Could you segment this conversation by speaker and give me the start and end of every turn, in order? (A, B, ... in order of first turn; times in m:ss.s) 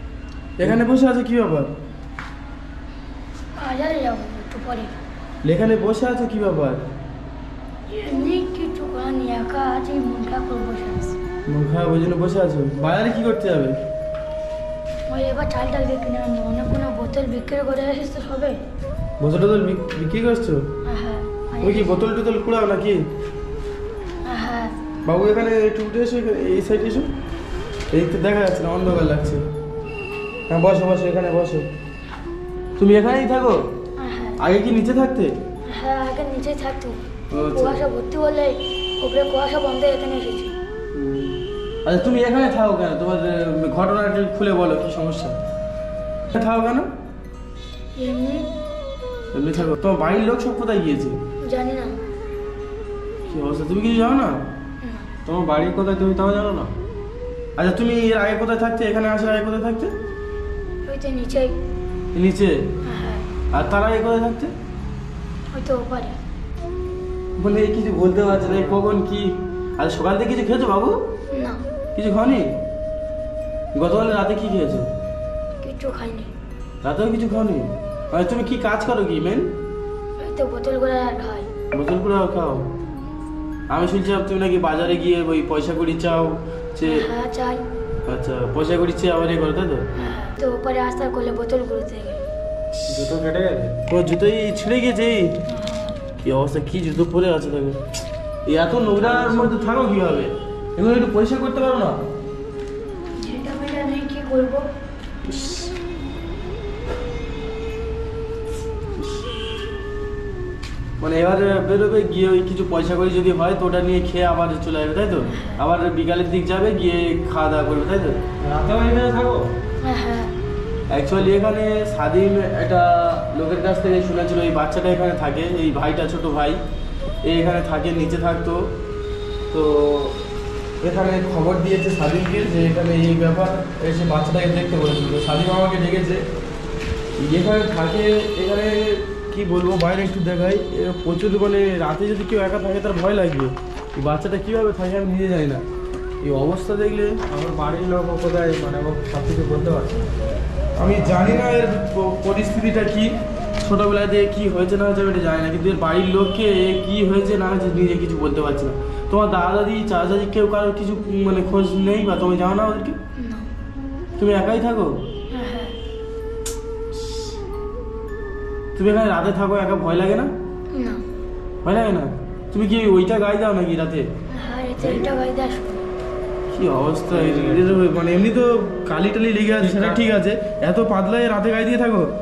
0:00.6-0:01.7 A
0:03.6-0:04.9 B
0:05.4-0:06.8 A
0:07.9-0:11.2 B
0:11.5-0:13.8 A
0:15.1-0:18.6 B
0:19.2-0:20.7 A
0:20.9-0:22.0 B
0:21.6-0:23.0 A
0:24.2-0:24.7 B
0:25.0-0:27.1 A
0:27.9-0:29.4 A
0:30.5-0:31.7 A
0:32.8-0:33.6 A
0:34.0-0:34.4 B
0:34.4-0:35.3 A
0:35.7-0:37.0 B
0:37.3-0:37.8 A
0:37.5-0:40.5 B
0:40.9-0:45.4 A
0:46.3-0:46.9 A
0:48.0-0:48.4 B
0:49.3-0:51.2 A
0:51.5-0:52.0 B
0:53.2-0:54.4 A
0:54.8-0:55.1 B
0:55.2-0:56.7 C
0:57.6-0:59.9 A
1:00.8-1:01.5 B
1:02.1-1:02.5 A
1:02.8-1:03.2 B
1:03.5-1:04.5 A
1:05.5-1:06.2 B
1:07.4-1:11.0 A
1:08.3-1:08.8 C
1:11.3-1:11.6 B
1:12.0-1:12.5 A
1:13.8-1:14.9 A
1:15.6-1:16.3 B
1:16.8-1:19.5 A
1:20.2-1:21.5 B
1:21.7-1:22.6 A
1:23.7-1:27.0 A
1:26.8-1:27.6 B
1:28.1-1:29.8 A
1:30.0-1:32.2 B
1:32.8-1:33.1 A
1:32.9-1:33.8 C
1:33.9-1:35.4 A
1:35.5-1:36.0 B
1:36.2-1:37.8 A
1:38.4-1:42.0 A
1:38.9-1:39.5 C
1:43.2-1:44.7 B
1:45.2-1:45.7 A
1:51.0-1:58.2 A
1:55.2-1:55.6 B
1:58.4-1:59.5 C
1:59.8-2:00.3 B
2:00.9-2:06.6 A
2:07.2-2:08.7 A
2:09.5-2:10.2 A
2:10.8-2:16.2 A
2:17.2-2:25.6 A
2:26.2-2:27.2 A
2:27.3-2:30.4 C
2:30.8-2:43.0 A
2:43.2-2:43.5 B
2:44.2-2:45.0 A
2:45.3-2:45.8 B
2:48.8-2:50.3 A
2:50.7-2:51.0 B
2:51.6-2:54.1 A
2:54.3-2:55.8 B
2:54.8-2:55.0 A
2:56.5-3:02.1 A
2:57.1-2:57.8 C
2:59.6-3:00.0 C